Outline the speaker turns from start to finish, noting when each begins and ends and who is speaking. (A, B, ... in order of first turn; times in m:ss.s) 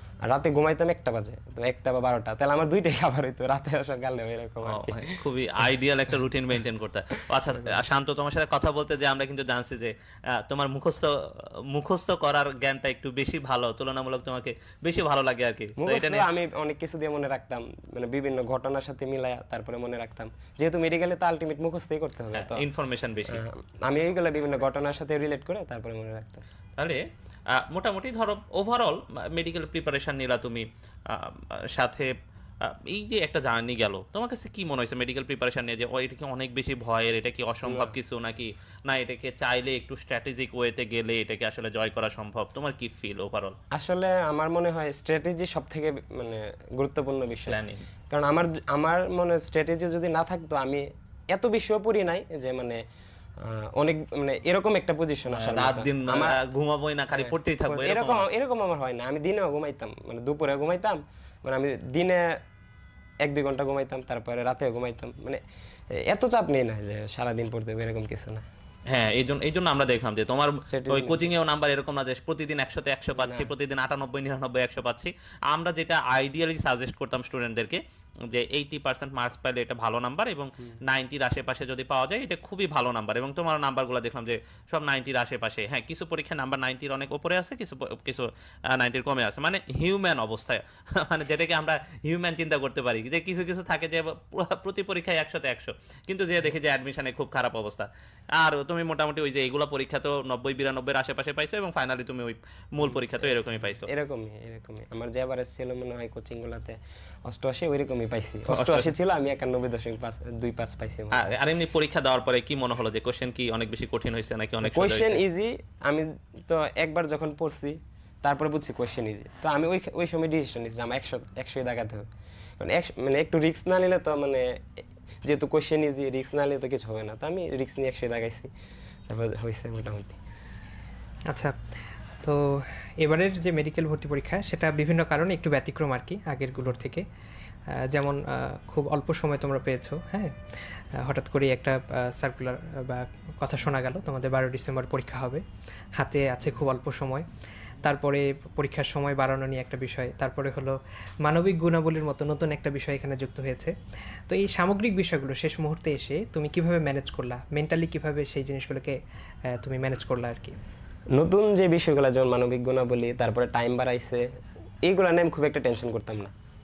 0:00.2-0:05.2 A
0:04.6-0:16.3 B
0:15.8-0:22.6 A
0:22.3-0:23.4 B
0:23.3-0:26.4 A
0:26.8-0:32.1 B
0:32.6-0:43.6 B
0:37.6-0:38.0 A
0:43.7-0:52.8 A
0:47.5-0:47.9 B
0:53.4-0:56.4 A
0:55.3-0:58.2 B
0:57.2-1:02.4 A
1:03.2-1:08.4 A
1:08.9-1:43.9 B
1:10.7-1:11.3 A
1:13.1-1:13.5 A
1:42.8-1:51.4 A
1:48.5-1:48.9 B
1:51.1-1:55.2 B
1:54.6-2:08.5 A
2:09.1-2:10.2 A
2:11.3-2:11.6 C
2:12.2-2:17.0 C
2:17.7-2:20.3 C
2:21.0-2:25.4 C
2:26.0-2:27.3 C
2:27.8-2:33.7 C
2:34.3-2:39.0 C
2:39.5-2:40.6 C
2:41.1-2:44.3 A
2:44.8-2:46.3 A